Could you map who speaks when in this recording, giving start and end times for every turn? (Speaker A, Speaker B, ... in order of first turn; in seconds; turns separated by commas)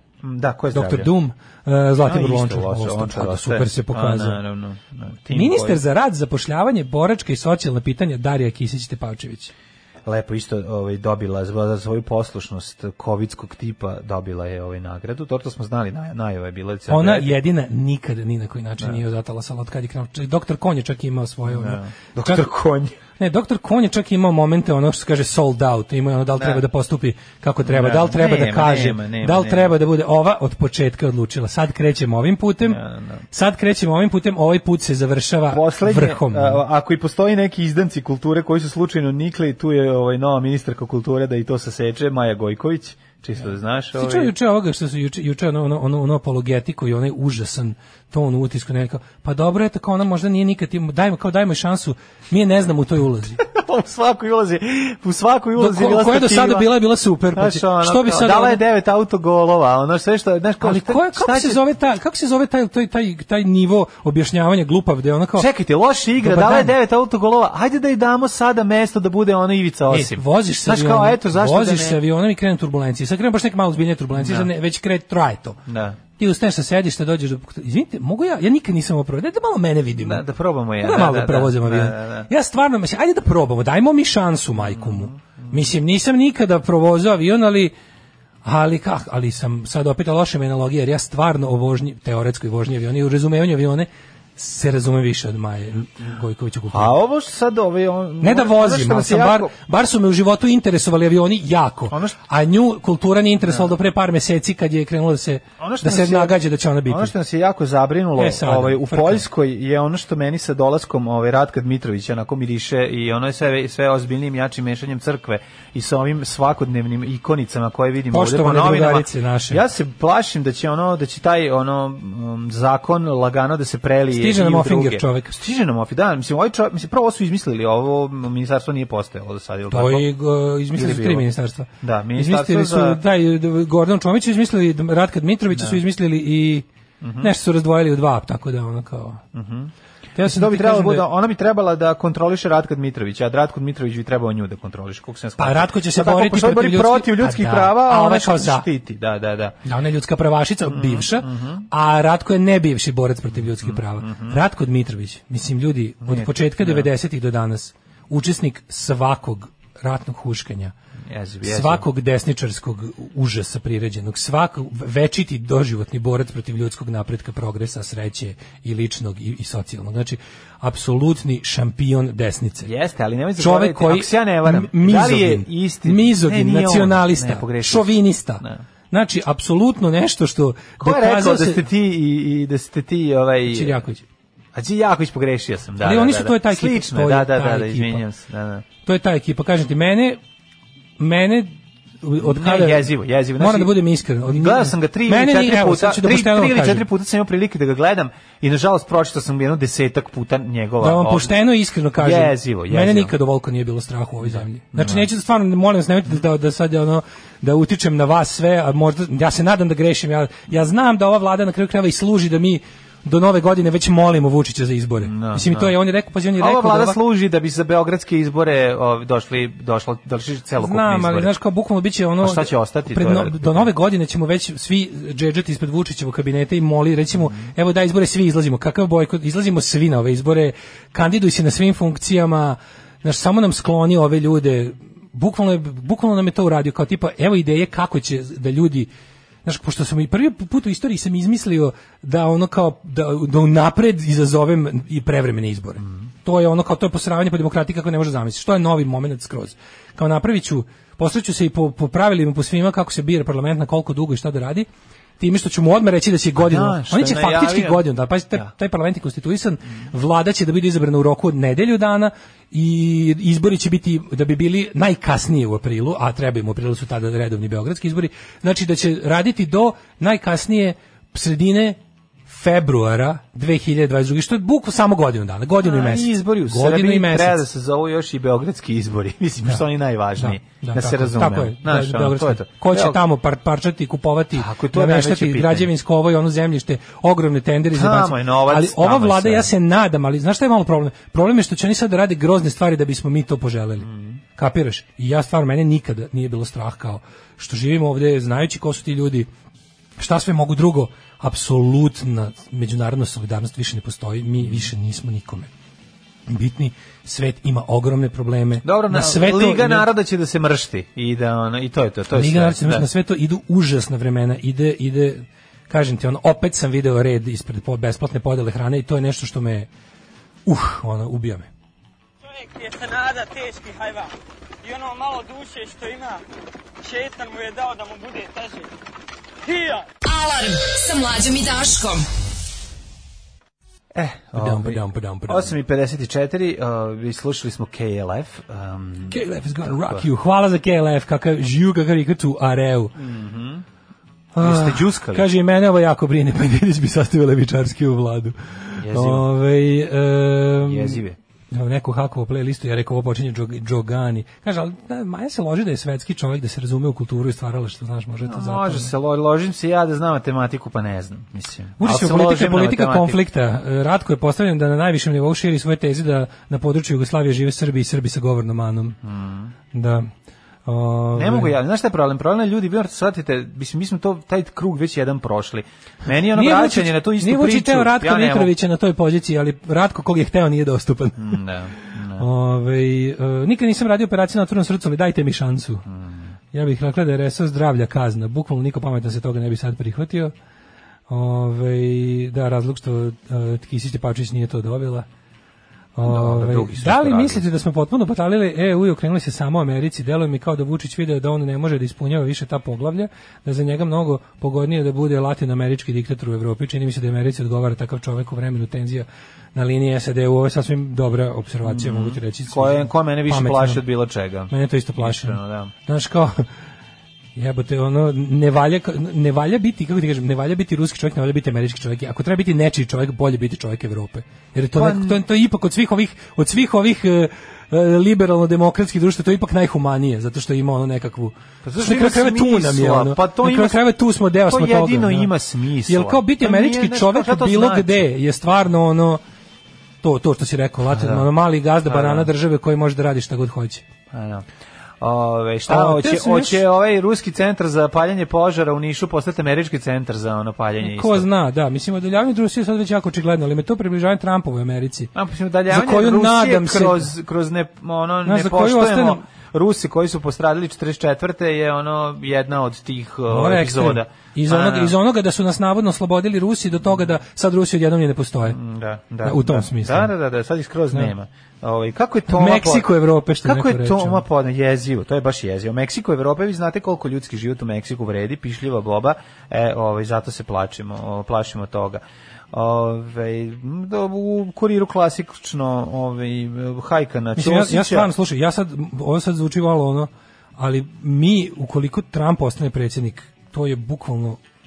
Speaker A: 0.2-1.1, Speaker B: 0.7-4.4, Speaker A: 2.0-5.8, Speaker B: 5.3-9.5, Speaker A: 10.1-17.4, Speaker B: 16.9-22.5, Speaker A: 21.5-23.0, Speaker B: 23.1-32.8, Speaker A: 26.4-26.6, Speaker A: 27.6-29.8, Speaker A: 32.6-33.2, Speaker B: 33.3-36.6, Speaker A: 35.5-44.3, Speaker B: 44.0-53.4, Speaker A: 53.4-56.7, Speaker B: 55.6-58.6, Speaker A: 57.3-61.6, Speaker B: 60.6-65.5, Speaker A: 65.4-72.0, Speaker B: 66.2-66.8, Speaker B: 69.9-75.6, Speaker A: 74.2-74.5, Speaker A: 75.7-76.0, Speaker B: 76.2-80.2, Speaker A: 80.0-82.3, Speaker B: 80.8-87.8, Speaker A: 84.6-85.6, Speaker B: 88.4-97.0, Speaker A: 96.7-99.5, Speaker B: 98.2-107.1, Speaker A: 101.9-102.2, Speaker A: 105.6-130.1, Speaker B: 108.2-109.2, Speaker B: 118.1-119.6, Speaker B: 124.2-125.3, Speaker B: 129.7-136.7, Speaker A: 130.7-131.3, Speaker A: 131.8-133.0, Speaker A: 135.5-135.8, Speaker A: 137.0-137.3, Speaker B: 137.2-139.2, Speaker A: 139.3-149.6, Speaker B: 140.2-141.1, Speaker B: 145.4-148.7, Speaker B: 149.7-160.7, Speaker A: 150.6-151.7, Speaker A: 153.3-154.4, Speaker A: 156.0-156.9, Speaker A: 161.1-161.9, Speaker B: 161.5-172.7, Speaker A: 172.6-178.6, Speaker B: 173.4-181.6, Speaker A: 180.8-183.8, Speaker B: 183.5-184.0, Speaker A: 184.5-188.7, Speaker B: 185.8-188.0, Speaker B: 188.8-190.2, Speaker B: 191.0-192.9, Speaker A: 192.2-201.3, Speaker B: 193.4-196.9, Speaker B: 200.8-217.0, Speaker A: 202.0-203.1, Speaker A: 204.2-205.1, Speaker A: 215.0-215.8, Speaker A: 216.4-221.3, Speaker B: 220.6-238.9, Speaker A: 222.2-223.7, Speaker A: 227.2-227.5, Speaker B: 239.4-254.7, Speaker A: 245.8-246.1, Speaker B: 255.2-277.4, Speaker A: 256.4-258.5, Speaker A: 275.6-283.0, Speaker B: 280.2-299.3, Speaker A: 284.4-285.7, Speaker A: 287.7-289.5, Speaker A: 293.8-294.2, Speaker B: 300.0-305.5, Speaker A: 304.4-304.7, Speaker B: 306.3-309.9, Speaker A: 308.6-312.9, Speaker B: 312.1-319.7, Speaker B: 320.5-321.5, Speaker C: 322.2-326.2, Speaker C: 326.8-328.7, Speaker C: 329.4-329.9, Speaker D: 330.0-332.1, Speaker A: 333.9-340.0, Speaker B: 334.3-335.6, Speaker B: 339.1-342.9, Speaker A: 343.0-343.6, Speaker B: 344.3-358.9, Speaker A: 344.4-345.3, Speaker A: 348.8-349.3, Speaker A: 350.6-351.2, Speaker A: 358.2-363.2, Speaker B: 361.8-369.0, Speaker A: 369.0-369.5, Speaker B: 369.7-370.1, Speaker B: 370.7-371.6, Speaker A: 371.1-378.5, Speaker B: 376.4-385.9, Speaker A: 381.2-382.3, Speaker A: 385.9-386.3, Speaker B: 386.5-390.3, Speaker B: 391.1-395.1, Speaker B: 396.0-413.9, Speaker A: 396.0-397.5, Speaker A: 411.6-415.7, Speaker B: 414.5-416.5, Speaker B: 417.4-435.3, Speaker A: 424.8-425.2, Speaker A: 431.6-433.9, Speaker A: 434.4-438.1, Speaker B: 435.9-439.2, Speaker B: 440.0-443.8, Speaker A: 440.9-441.3, Speaker A: 441.9-442.3, Speaker A: 444.1-444.5, Speaker A: 445.0-451.3, Speaker B: 445.7-446.6, Speaker B: 450.8-455.1, Speaker A: 455.1-465.0, Speaker B: 455.7-457.1, Speaker B: 458.2-459.2, Speaker B: 463.3-468.6, Speaker A: 468.5-488.1, Speaker B: 469.2-470.1, Speaker B: 472.3-474.2, Speaker B: 487.4-494.4